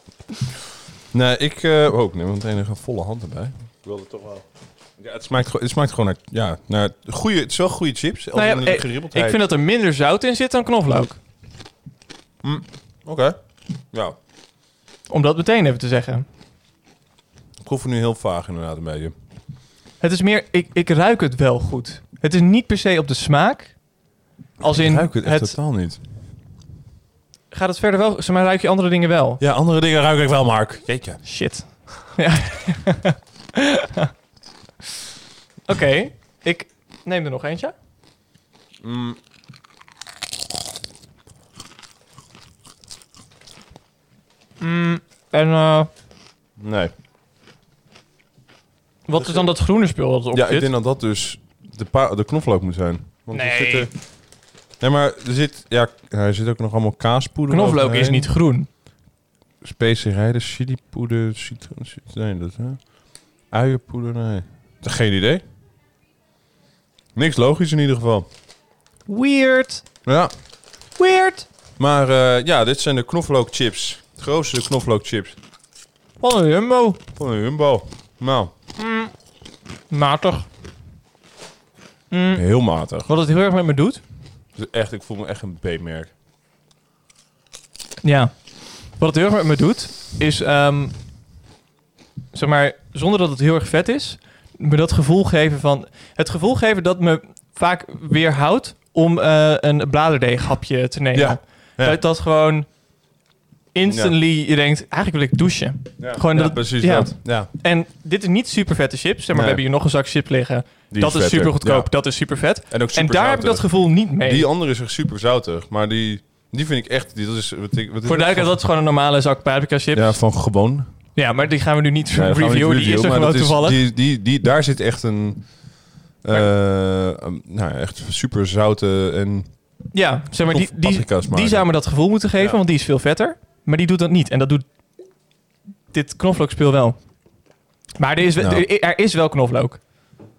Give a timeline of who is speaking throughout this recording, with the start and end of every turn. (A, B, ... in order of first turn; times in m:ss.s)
0:01.1-0:09.4 A
0:08.3-0:11.2 B
0:12.4-0:14.2 A
0:15.1-0:16.2 B
0:17.6-0:19.1 A
0:20.0-0:25.7 B
0:24.7-0:26.0 A
0:27.5-0:29.4 B
0:29.4-0:31.9 A
0:31.2-0:34.1 B
0:35.7-0:37.7 B
0:38.8-0:39.2 A
0:44.6-0:45.9 B
0:46.6-0:46.9 A
0:49.1-0:50.7 B
0:49.2-0:58.4 A
0:53.3-0:53.9 B
0:57.5-0:58.7 B
0:59.6-1:05.4 A
1:07.1-1:08.3 A
1:09.1-1:10.0 B
1:10.0-1:10.3 A
1:11.0-1:11.5 B
1:11.8-1:15.4 A
1:16.2-1:17.0 B
1:17.2-1:18.5 A
1:18.8-1:19.1 B
1:19.9-1:20.5 B
1:22.1-1:24.0 B
1:22.3-1:23.1 A
1:24.5-1:26.1 A
1:28.0-1:31.0 B
1:32.3-1:42.7 B
1:41.1-1:42.0 A
1:43.7-1:54.5 B
1:43.9-1:44.2 A
1:46.0-1:47.5 A
1:49.3-1:49.6 A
1:50.9-1:58.6 A
1:58.0-2:00.5 B
1:59.9-2:01.0 A
2:01.2-2:03.8 B
2:02.1-2:12.6 A
2:09.9-2:14.8 B
2:15.9-2:19.8 B
2:18.4-2:18.7 A